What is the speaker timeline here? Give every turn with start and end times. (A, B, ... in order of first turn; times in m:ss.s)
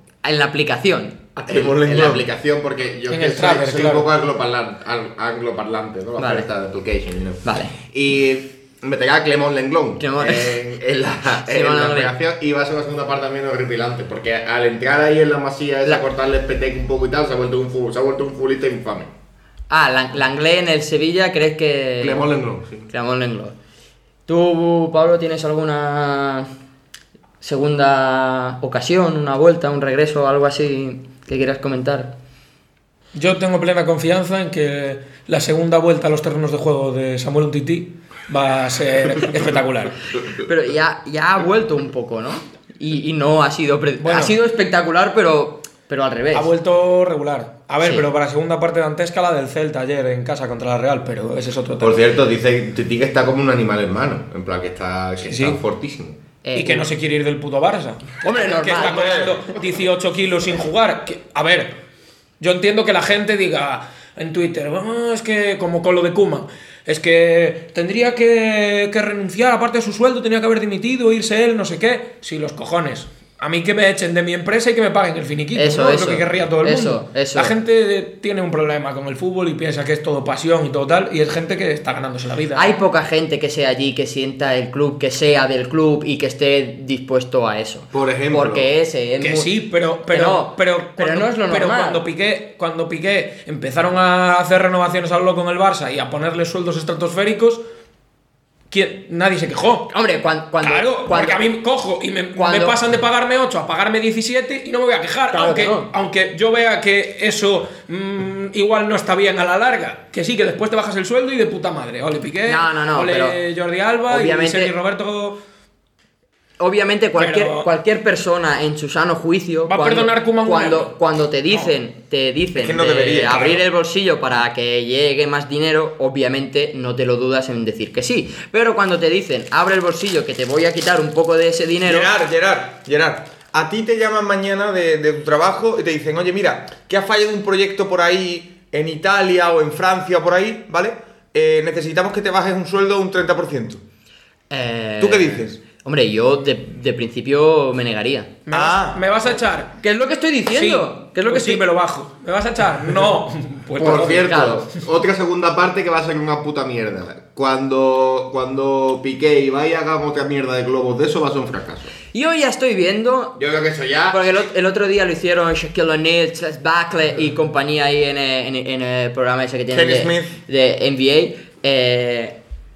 0:00.2-0:01.2 A
0:01.4-0:02.2 B
0:01.5-0:19.1 C
0:03.1-0:04.1 D
0:06.2-0:06.5 A
0:07.4-0:07.7 A
0:10.0-0:10.6 A
0:11.4-0:12.1 A
0:19.7-0:22.3 A
0:22.0-0:22.9 C
0:22.9-0:23.5 A
0:24.3-0:26.5 A
0:27.4-0:32.1 A
0:33.1-0:40.0 D
0:40.4-0:46.5 A
0:44.0-0:44.4 D
0:46.3-0:52.0 D
0:51.8-0:56.2 C
0:55.2-0:55.6 D
0:56.4-0:56.9 A
0:56.5-1:01.7 D
0:58.2-0:59.3 A
0:58.8-0:59.4 B
1:02.4-1:22.7 D
1:15.5-1:17.5 A
1:22.5-1:29.5 A
1:27.9-1:28.7 C
1:29.2-1:37.6 D
1:30.1-1:32.0 A
1:38.7-1:39.9 D
1:39.9-1:41.4 A
1:40.6-1:55.4 D
1:42.3-1:42.8 A
1:45.3-1:45.9 A
1:52.4-1:53.4 A
1:54.1-1:54.7 A
1:56.6-2:12.1 A
1:57.2-1:57.7 D
1:59.7-2:00.9 D
2:02.6-2:03.6 B
2:11.8-2:23.8 B
2:24.5-2:28.3 A
2:25.0-2:25.6 B
2:28.5-2:29.7 D
2:28.5-2:29.0 B
2:29.8-2:31.6 A
2:30.5-2:34.6 D
2:33.8-2:41.9 C
2:34.2-2:34.6 A
2:42.1-2:43.4 A
2:43.4-2:44.2 C
2:44.1-2:52.4 A
2:49.7-2:50.3 B